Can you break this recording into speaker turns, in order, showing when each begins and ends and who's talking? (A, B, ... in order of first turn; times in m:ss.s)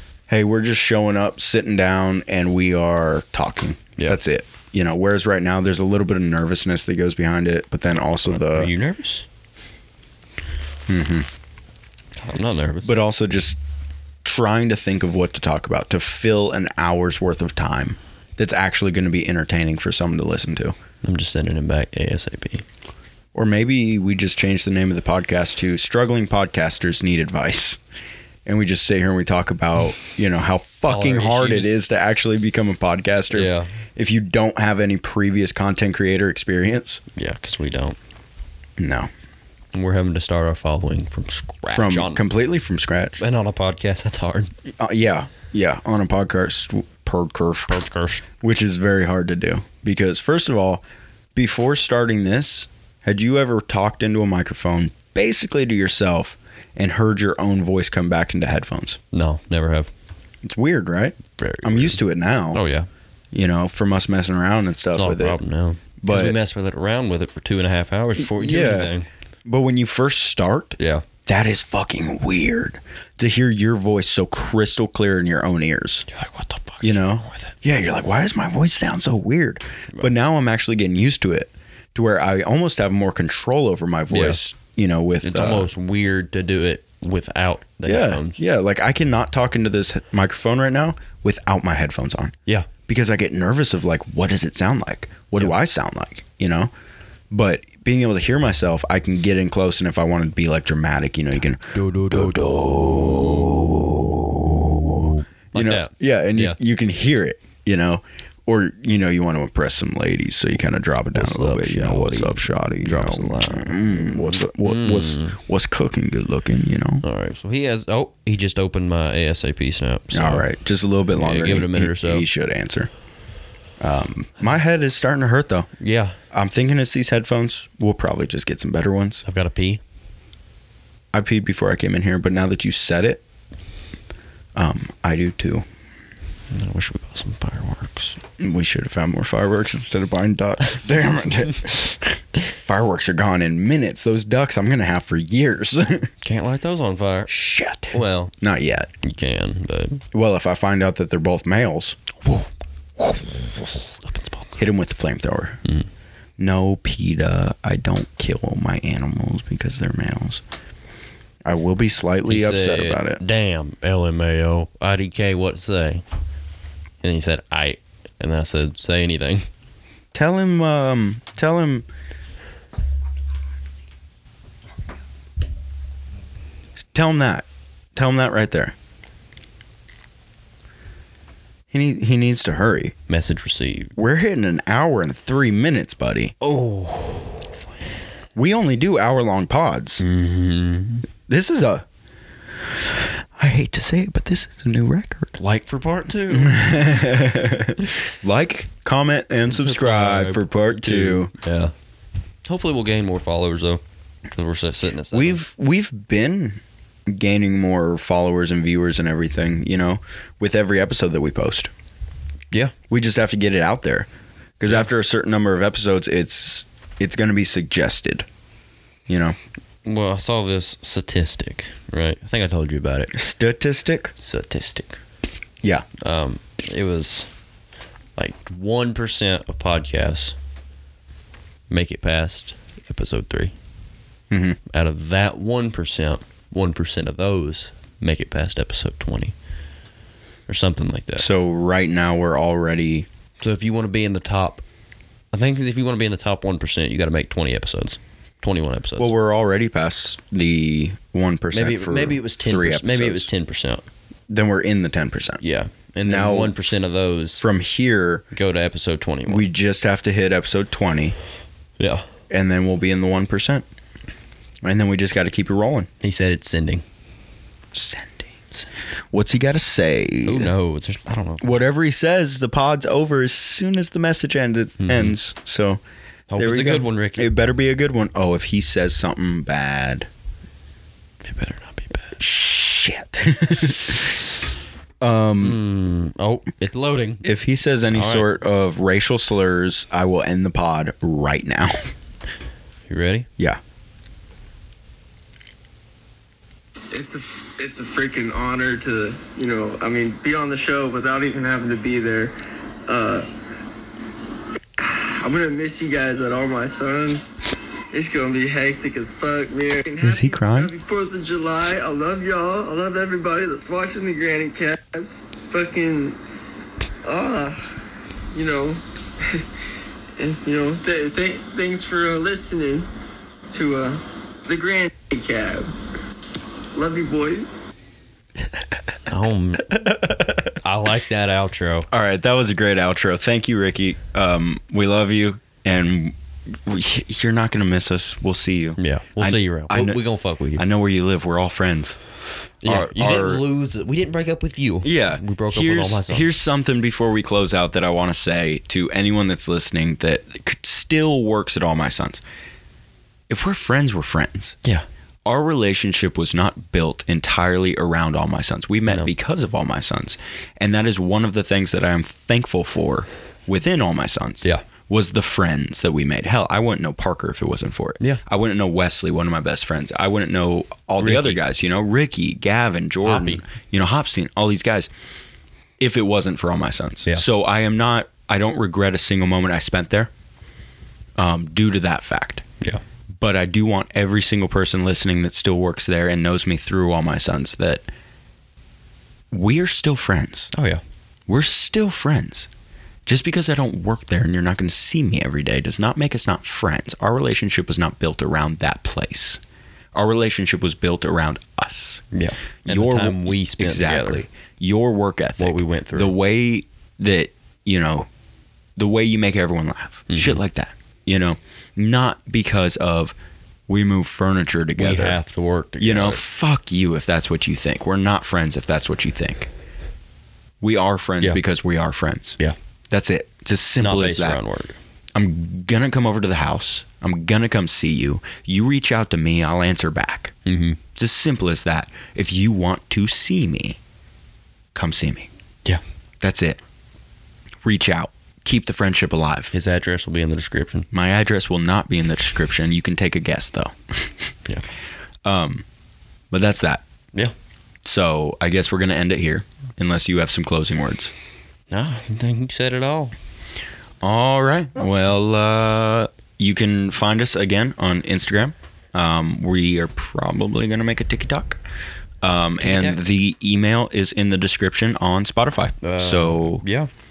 0:00.3-0:08.7 A
0:08.2-0:09.2 B
0:10.9-0:11.3 A
0:12.2-0:13.0 B
0:12.8-0:13.6 A
0:14.2-0:20.7 A
0:21.0-0:22.6 B
0:23.3-0:27.8 A
0:28.4-0:37.0 A
0:30.9-0:31.8 B
0:33.3-0:33.7 B
0:37.1-0:38.0 B
0:38.8-0:39.1 A
0:39.7-0:42.2 B
0:41.7-0:43.2 A
0:43.2-0:44.5 B
0:44.8-0:47.8 A
0:47.7-0:48.2 B
0:48.4-0:50.8 A
0:51.3-0:59.0 A
0:59.1-0:59.9 B
1:00.4-1:02.6 A
1:01.4-1:02.9 B
1:03.3-1:05.4 A
1:04.9-1:09.1 B
1:06.0-1:06.4 A
1:08.2-1:08.9 A
1:09.4-1:16.1 A
1:10.8-1:11.0 B
1:16.1-1:17.5 B
1:16.8-1:25.7 A
1:24.1-1:24.4 B
1:25.2-1:28.4 B
1:27.8-1:32.4 A
1:32.9-1:36.7 A
1:37.3-1:57.0 A
1:41.7-1:43.5 B
1:44.9-1:46.6 B
1:51.1-1:55.4 B
1:57.0-2:00.5 B
2:00.1-2:02.9 A
2:01.1-2:02.2 B
2:03.8-2:05.7 A
2:05.8-2:06.2 B
2:06.3-2:09.2 A
2:09.2-2:09.8 B
2:11.1-2:13.2 A
2:14.6-2:15.6 A
2:16.5-2:18.2 B
2:18.4-2:26.1 A
2:26.2-2:27.3 B
2:27.3-2:28.9 A
2:27.9-2:28.3 B
2:29.0-2:30.0 B
2:30.1-2:32.2 A
2:33.9-2:34.6 B
2:34.6-2:35.6 A
2:36.4-2:40.4 A
2:41.4-2:43.2 A
2:42.3-2:46.0 B
2:47.0-2:49.5 B
2:50.1-2:51.8 A
2:56.9-2:58.7 A
3:01.7-3:03.0 A
3:03.1-3:03.9 B
3:04.0-3:06.3 A
3:06.4-3:07.5 B
3:08.3-3:10.0 A
3:10.0-3:11.0 B
3:11.3-3:11.8 A
3:12.7-3:15.4 A
3:15.4-3:16.7 B
3:16.3-3:21.3 A
3:19.5-3:21.7 B
3:22.4-3:23.8 B
3:24.3-3:25.4 B
3:25.1-3:31.7 A
3:32.9-3:34.1 A
3:34.6-3:38.2 A
3:39.1-3:39.4 A
3:39.8-3:43.1 B
3:43.1-3:44.1 A
3:44.2-3:45.0 B
3:45.6-3:45.9 A
3:46.0-3:47.3 B
3:48.2-3:50.4 B
3:51.7-3:53.5 B
3:54.3-3:54.6 A
3:54.7-3:59.3 B
4:00.5-4:01.2 B
4:01.2-4:03.1 A
4:03.4-4:04.6 B
4:05.3-4:09.1 B
4:09.0-4:13.3 A
4:11.5-4:13.8 B
4:14.3-4:15.4 A
4:15.4-4:17.4 B
4:16.0-4:16.6 A
4:17.4-4:18.2 A
4:18.3-4:19.5 B
4:19.2-4:21.2 A
4:21.8-4:22.0 B
4:22.3-4:23.6 A
4:24.6-4:25.9 A
4:26.0-4:26.8 B
4:27.7-4:28.3 A
4:29.1-4:30.5 A
4:30.2-4:31.5 B
4:31.4-4:35.8 A
4:34.8-4:35.2 B
4:36.3-4:37.3 B
4:36.4-4:40.1 A
4:41.2-4:42.2 B
4:42.2-4:44.2 A
4:45.0-4:45.6 A
4:45.4-4:47.2 B
4:47.2-4:51.9 A
4:47.9-4:48.3 B
4:52.9-4:53.3 B
4:56.9-5:02.3 C
5:02.8-5:03.3 C
5:04.8-5:07.4 C
5:07.9-5:16.2 C
5:10.0-5:10.7 A
5:17.0-5:19.5 C
5:20.2-5:22.9 C
5:23.4-5:25.7 C
5:26.7-5:27.7 C
5:29.1-5:29.8 B
5:29.6-5:30.6 A
5:30.6-5:31.9 B
5:31.9-5:40.0 A
5:38.8-5:40.6 B
5:40.5-5:42.0 A
5:42.6-5:46.4 B
5:42.6-5:43.4 A
5:44.8-5:52.2 A
5:53.3-5:54.6 A
5:55.2-6:14.9 A
6:11.0-6:11.4 B
6:13.0-6:13.4 B
6:15.8-6:20.1 A
6:21.2-6:22.4 A
6:23.2-6:27.9 A
6:29.3-6:30.5 A
6:30.5-6:30.8 B
6:31.3-6:32.5 A
6:33.0-6:39.4 A
6:39.9-6:42.0 A
6:42.1-6:44.2 B
6:42.6-6:48.1 A
6:45.4-6:46.1 B
6:48.8-6:53.1 A
6:50.1-6:50.4 B
6:53.7-6:55.2 A
6:54.8-6:56.2 B
6:55.8-6:59.5 A
7:00.6-7:02.4 A
7:02.9-7:04.4 A
7:03.8-7:04.8 B
7:05.1-7:10.3 A
7:10.4-7:10.8 B
7:11.0-7:13.8 A
7:14.7-7:15.3 A
7:16.2-7:16.6 A
7:17.6-7:19.5 A
7:19.5-7:20.9 B
7:20.9-7:24.3 A
7:25.2-7:25.6 A
7:26.3-7:26.8 A
7:27.8-7:31.1 A
7:31.7-7:33.1 B
7:34.0-7:41.6 A
7:42.2-7:46.6 A
7:42.6-7:43.0 B
7:45.8-7:46.9 B